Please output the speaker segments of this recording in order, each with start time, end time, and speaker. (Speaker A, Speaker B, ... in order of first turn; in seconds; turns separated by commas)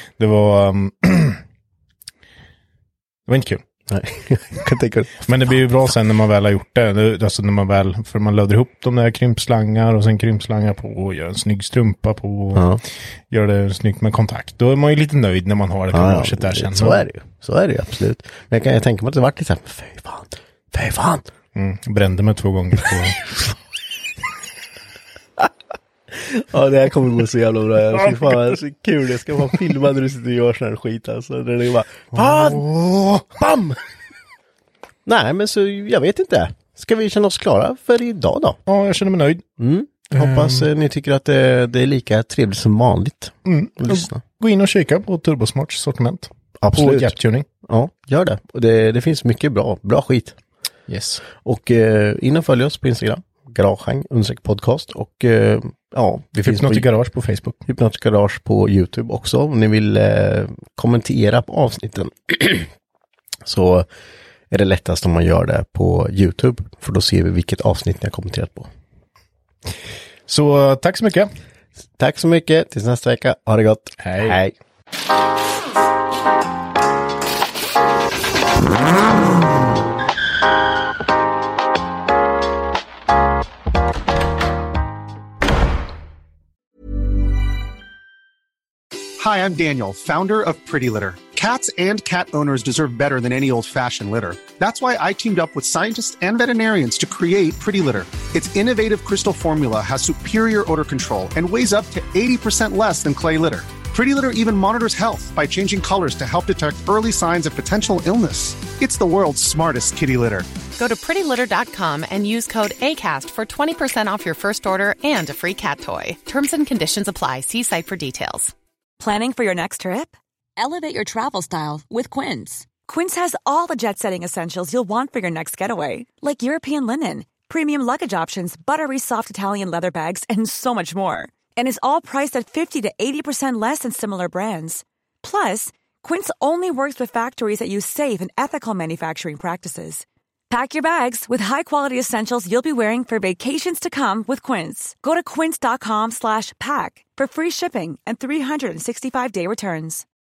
Speaker A: 0.2-1.4, Speaker A: 3.3-3.6, Speaker B: 3.9-5.5, Speaker A: 5.2-12.7, Speaker B: 12.6-12.8, Speaker A: 13.3-17.0, Speaker B: 15.9-21.3, Speaker A: 21.6-23.2, Speaker B: 26.1-33.8, Speaker A: 28.1-28.6, Speaker A: 32.1-32.7, Speaker B: 35.1-38.6, Speaker A: 38.7-39.4, Speaker B: 39.6-44.2, Speaker A: 40.1-40.7, Speaker A: 43.5-47.5, Speaker B: 46.6-50.4, Speaker A: 50.9-51.2, Speaker B: 51.4-56.9, Speaker A: 56.5-57.6, Speaker B: 57.7-62.7, Speaker B: 63.5-63.9, Speaker B: 64.5-68.7, Speaker A: 70.3-71.3, Speaker B: 72.0-74.5, Speaker A: 74.0-74.4, Speaker C: 89.2-110.5, Speaker D: 110.8-118.5, Speaker E: 119.0-120.1, Speaker F: 120.6-122.7, Speaker E: 122.8-150.1